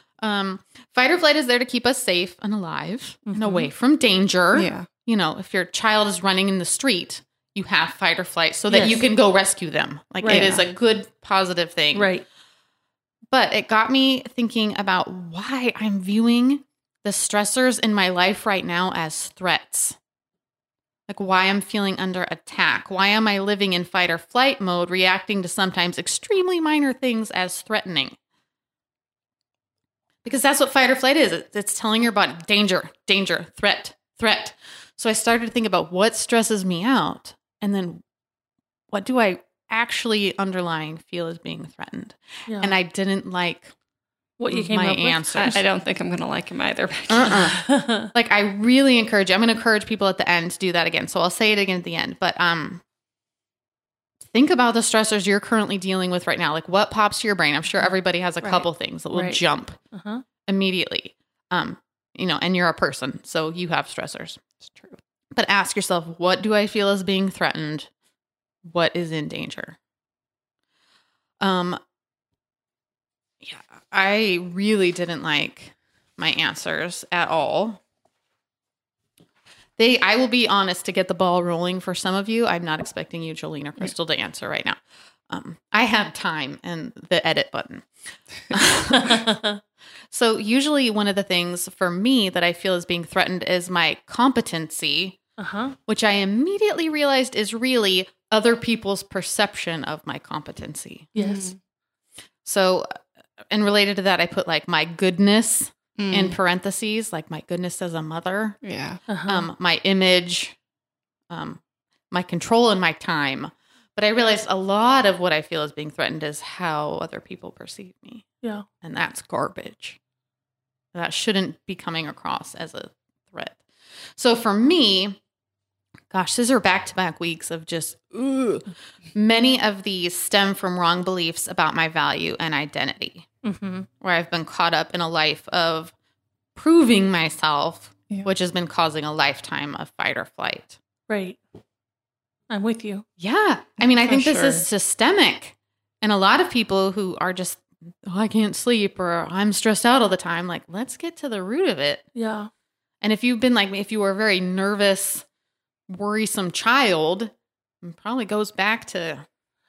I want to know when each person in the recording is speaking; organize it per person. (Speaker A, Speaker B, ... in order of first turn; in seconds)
Speaker A: 0.2-12.1, 13.3-20.0, 21.1-28.2, 30.2-38.0, 38.9-43.7, 44.5-45.6, 47.1-52.8, 54.3-59.8, 60.5-64.4, 65.3-67.9, 68.7-69.8, 71.4-71.8, 73.4-77.8, 79.8-84.8, 85.3-87.9, 88.5-89.3, 90.1-95.2, 95.9-101.1, 102.4-102.9, 103.5-108.6, 109.3-110.5, 111.3-118.2, 118.8-120.0, 120.9-123.6, 124.2-125.2, 126.1-133.2, 134.0-135.9, 136.6-140.8, 143.2-152.0, 153.0-155.2, 155.9-157.3, 157.8-159.2
Speaker B: 3.3-3.7, 10.2-10.6, 11.9-12.2, 42.5-42.7, 44.4-45.6, 47.6-48.1, 58.4-60.2, 89.0-89.6, 95.4-95.8, 101.2-101.5, 109.1-109.5, 133.4-133.9, 141.1-141.4, 142.5-143.1, 152.2-152.5
Speaker C: 4.5-4.9, 8.7-9.1, 10.2-10.6, 45.4-47.6, 64.7-65.0, 101.2-101.6, 106.0-106.4, 108.6-109.0, 143.8-144.7